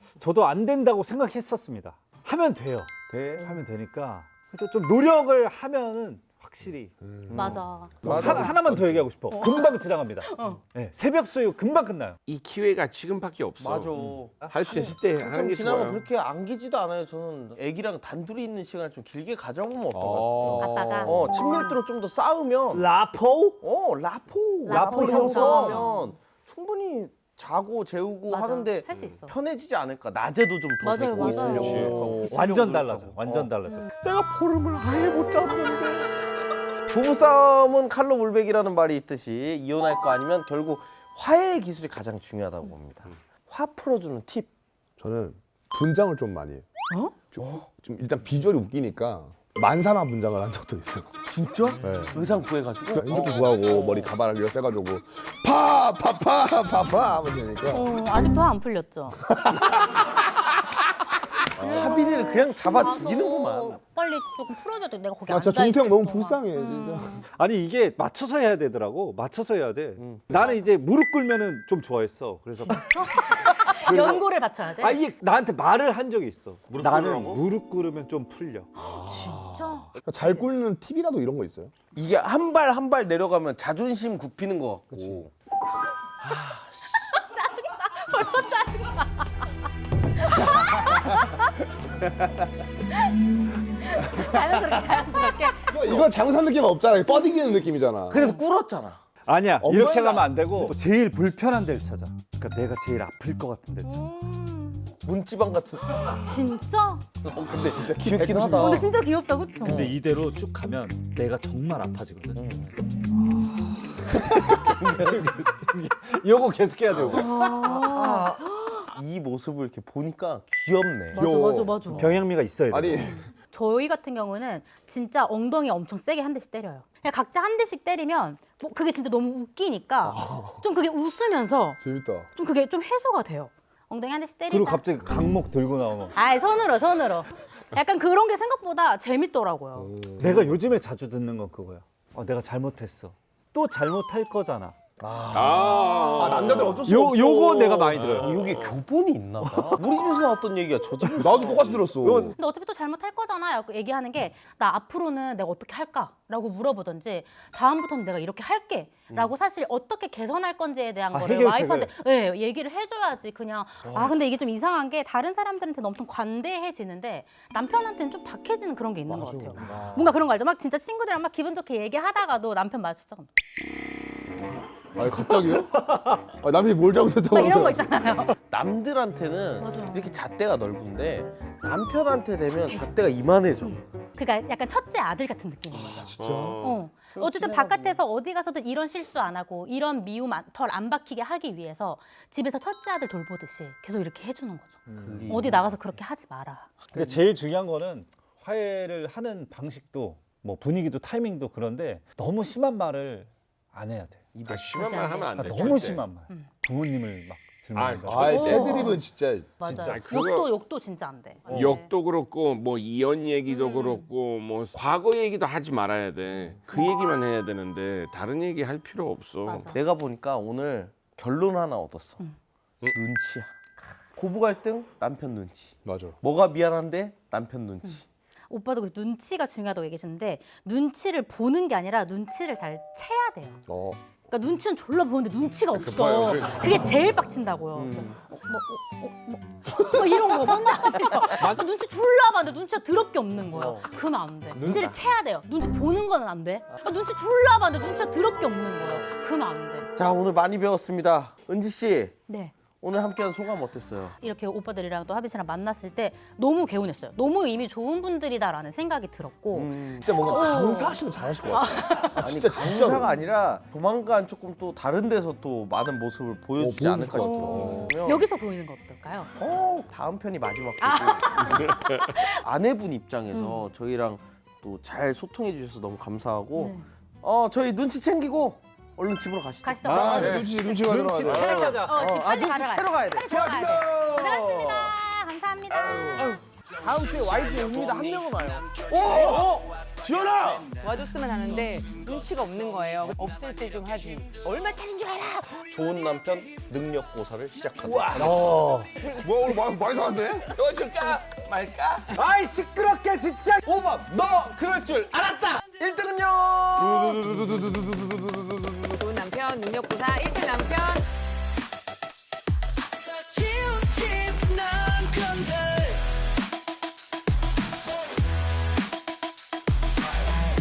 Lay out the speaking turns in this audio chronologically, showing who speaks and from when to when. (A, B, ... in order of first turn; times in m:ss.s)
0:00.2-0:06.9 A
0:03.2-0:03.4 B
0:07.0-0:09.0 C
0:07.3-0:09.0 B
0:07.3-0:08.5 D
0:08.0-0:12.2 A
0:09.3-0:10.6 D
0:12.3-0:16.0 E
0:13.6-0:22.9 B
0:19.9-0:21.1 C
0:20.6-0:21.8 D
0:22.7-0:23.6 A
0:23.6-0:36.1 B
0:24.6-0:25.8 A
0:24.7-0:26.1 D
0:28.3-0:29.3 D
0:30.8-0:32.2 D
0:31.4-0:32.0 C
0:31.5-0:32.0 E
0:32.3-0:33.9 A
0:36.9-0:44.5 B
0:45.0-0:46.6 C
0:47.3-0:51.1 C
0:51.3-0:54.1 B
0:51.8-0:52.2 C
0:52.9-0:57.9 C
0:53.2-0:53.4 E
0:57.7-0:59.2 D
0:59.2-1:00.0 C
1:01.6-1:07.2 D
1:01.6-1:03.8 B
1:01.6-1:02.0 C
1:05.2-1:07.2 C
1:07.3-1:14.2 A
1:10.0-1:10.3 B
1:12.7-1:15.0 D
1:13.9-1:14.1 B
1:14.8-1:18.7 A
1:16.7-1:17.4 E
1:18.8-1:20.5 D
1:19.0-1:19.5 C
1:20.0-1:21.7 C
1:21.9-1:25.3 B
1:24.9-1:25.2 C
1:26.2-1:27.1 B
1:27.2-1:29.6 D
1:30.2-1:31.6 D
1:30.3-1:31.2 C
1:32.9-1:33.3 D
1:33.8-1:36.1 D
1:35.6-1:38.2 C
1:38.1-1:39.0 B
1:38.1-1:38.4 D
1:39.2-1:44.1 A
1:39.6-1:40.7 C
1:43.8-1:44.8 D
1:45.0-1:46.2 B
1:46.2-1:47.1 D
1:47.2-1:48.9 B
1:47.5-1:48.9 C
1:48.5-1:49.9 D
1:49.6-1:52.5 A
1:49.6-1:49.9 B
1:52.3-1:52.7 B
1:53.3-1:58.5 A
1:54.8-1:55.1 B
1:57.1-1:58.7 D
1:58.9-2:01.2 B
2:01.1-2:02.1 D
2:01.1-2:02.2 C
2:01.9-2:03.1 A
2:02.7-2:03.3 C
2:03.0-2:11.8 D
2:10.0-2:10.6 C
2:11.8-2:12.3 C
2:12.3-2:14.8 D
2:14.5-2:16.2 A
2:16.1-2:20.0 D
2:19.8-2:20.6 C
2:20.2-2:24.7 A
2:25.0-2:27.8 C
2:25.3-2:26.8 E
2:26.8-2:28.5 A
2:27.8-2:31.8 B
2:27.9-2:28.7 E
2:29.4-2:29.8 A
2:31.0-2:32.4 A
2:31.2-2:32.4 C
2:32.4-2:53.3 D
2:41.1-2:41.9 A
2:49.0-2:50.1 C
2:49.6-2:50.0 A
2:54.9-2:58.2 C
2:55.8-2:56.2 A
2:57.3-2:58.4 D
2:58.5-3:03.8 B
2:59.6-3:00.2 D
3:04.2-3:16.8 D
3:05.8-3:06.6 C
3:06.2-3:06.8 E
3:07.1-3:08.0 B
3:14.9-3:15.4 A
3:14.9-3:15.9 B
3:16.9-3:24.3 A
3:16.9-3:17.2 B
3:24.3-3:25.2 B
3:24.5-3:26.0 E
3:24.7-3:26.5 D
3:25.4-3:28.9 A
3:27.8-3:28.8 E
3:28.0-3:29.8 C
3:28.3-3:29.0 D
3:29.6-3:31.9 D
3:29.6-3:30.0 A
3:29.8-3:30.5 E
3:31.5-3:39.7 E
3:33.5-3:34.0 D
3:39.4-3:39.8 D
3:39.7-3:42.2 B
3:42.9-3:43.5 B
3:44.1-3:48.1 B
3:45.8-3:46.2 C
3:48.5-3:53.6 D
3:53.7-3:54.0 C
3:54.3-4:09.9 D
3:55.9-3:56.5 C
3:55.9-3:56.5 E
3:57.7-3:58.2 B
4:01.3-4:01.6 A
4:03.5-4:03.9 B
4:04.6-4:04.9 C
4:04.6-4:05.0 B
4:09.9-4:12.2 B
4:12.3-4:12.5 D
4:12.8-4:14.2 B
4:14.2-4:23.0 D
4:19.5-4:20.5 B
4:20.0-4:23.1 C
4:22.2-4:28.3 B
4:26.6-4:27.9 C
4:27.2-4:29.3 D
4:29.4-4:31.7 B
4:30.8-4:32.4 D
4:31.7-4:32.0 E
4:32.3-4:40.6 B
4:33.3-4:33.6 D
4:36.6-4:36.8 D
4:39.6-4:40.7 D
4:39.8-4:41.6 C
4:40.8-4:42.1 A
4:41.2-4:43.4 B
4:41.8-4:46.3 D
4:43.3-4:45.0 C
4:45.7-4:46.3 C
4:46.1-4:49.4 B
4:47.5-4:48.2 E
4:47.6-4:48.2 F
4:48.9-4:50.7 C
4:49.2-4:49.6 F
4:50.7-4:55.4 F
4:55.6-4:58.6 B
4:58.1-4:58.9 A
4:59.1-5:00.5 C
5:00.6-5:02.2 E
5:02.1-5:03.6 A
5:03.6-5:07.3 B
5:07.0-5:08.8 C
5:08.9-5:11.0 F
5:13.1-5:16.0 G